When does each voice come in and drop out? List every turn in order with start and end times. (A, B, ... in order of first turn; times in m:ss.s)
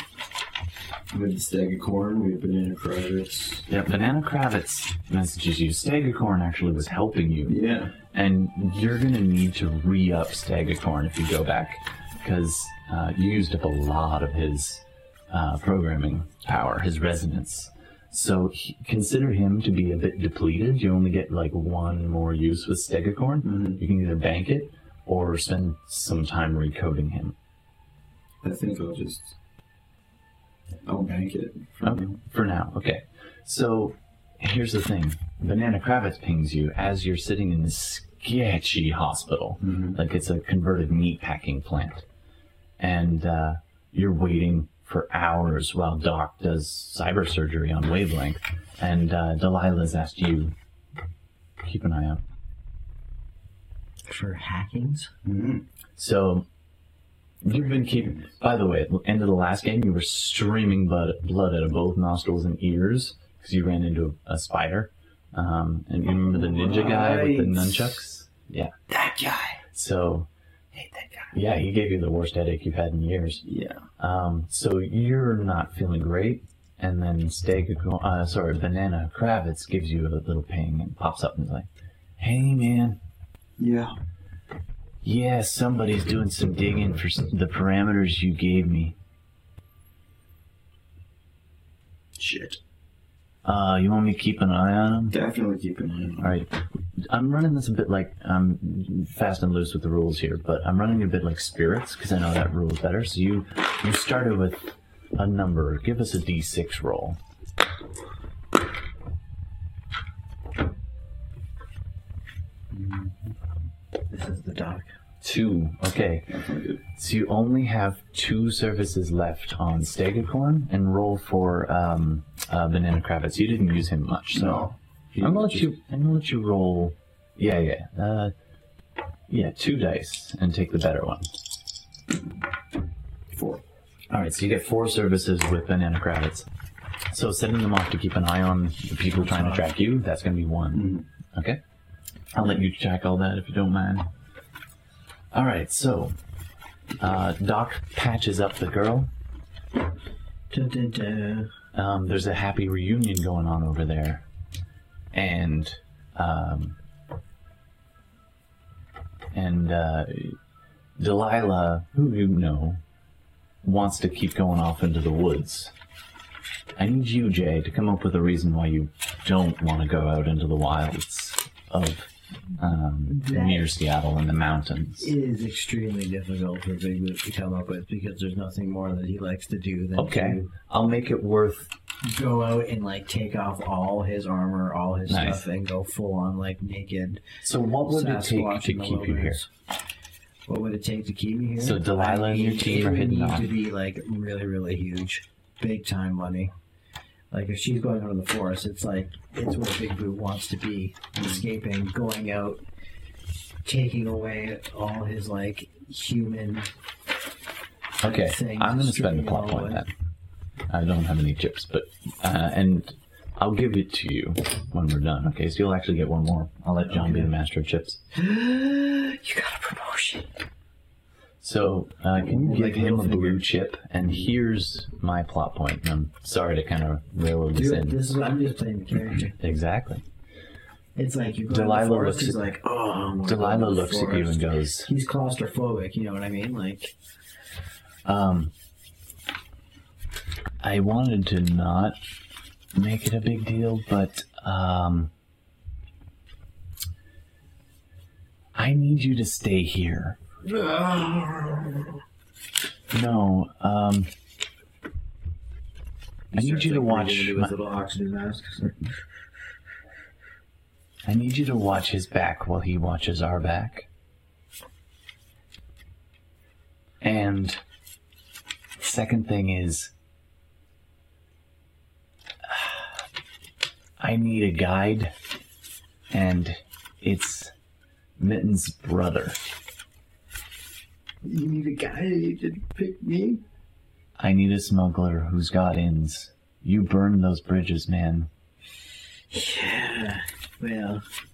0:01.1-0:03.6 A
0:03.7-0:07.6 B
0:07.4-0:07.9 A
0:08.1-0:27.3 B
0:23.4-0:23.8 A
0:28.4-0:29.4 A
0:30.8-0:32.2 A
0:31.8-0:42.0 B
0:39.6-0:40.0 A
0:42.8-0:50.5 B
0:51.6-0:52.2 B
0:54.0-0:55.1 C
0:55.2-0:55.6 A
0:56.0-0:56.5 B
0:57.4-1:08.7 B
1:06.2-1:08.0 A
1:08.9-1:09.6 A
1:09.7-1:10.3 B
1:10.8-1:11.2 A
1:11.3-1:13.4 B
1:13.4-1:13.8 A
1:14.0-1:21.7 B
1:22.2-1:23.0 B
1:23.6-1:24.0 A
1:25.0-1:29.0 B
1:32.2-1:32.6 A
1:33.4-1:35.2 B
1:35.1-1:36.4 A
1:36.2-1:36.6 B
1:37.1-1:47.2 B
1:52.7-1:53.3 A
1:54.1-1:54.9 C
1:55.2-1:56.3 B
1:56.3-1:56.8 A
1:56.9-2:04.7 B
2:04.3-2:05.7 A
2:05.2-2:08.3 B
2:09.3-2:11.3 B
2:13.3-2:13.6 A
2:14.1-2:16.5 B
2:17.1-2:21.6 B
2:19.2-2:19.6 A
2:20.7-2:21.0 A
2:22.3-2:24.1 B
2:25.3-2:26.1 B
2:27.0-2:29.1 B
2:30.5-2:31.5 C
2:31.7-2:34.2 B
2:35.1-2:36.8 B
2:39.3-2:40.4 B
2:41.0-2:42.8 B
2:43.6-2:45.7 B
2:46.8-2:55.1 B
2:53.1-2:53.7 C
2:55.0-3:00.5 C
3:00.0-3:01.7 B
3:02.0-3:07.2 C
3:05.1-3:05.4 B
3:07.4-3:09.4 B
3:07.8-3:09.5 C
3:10.5-3:16.5 C
3:11.6-3:13.5 B
3:17.3-3:22.6 C
3:23.6-3:26.7 C
3:28.0-3:29.9 B
3:28.0-3:29.8 C
3:30.7-3:38.0 B
3:36.9-3:37.3 C
3:38.1-3:40.3 C
3:41.4-3:48.0 B
3:42.2-3:43.4 C
3:47.5-3:49.4 C
3:49.4-3:50.0 B
3:51.0-3:56.9 C
3:51.5-3:52.4 B
3:53.2-3:54.9 B
3:58.0-3:58.5 B
4:00.6-4:02.0 B
4:02.7-4:05.1 B
4:08.5-4:10.2 B
4:10.4-4:11.9 C
4:12.9-4:14.1 B
4:16.3-4:18.8 C
4:16.3-4:17.5 B
4:21.0-4:23.9 B
4:27.0-4:27.6 B
4:28.8-4:29.9 B
4:32.4-4:32.8 B
4:34.0-4:35.1 B
4:36.1-4:37.5 B
4:38.2-4:39.4 B
4:41.2-4:43.4 C
4:44.2-4:48.3 B
4:49.3-4:51.0 C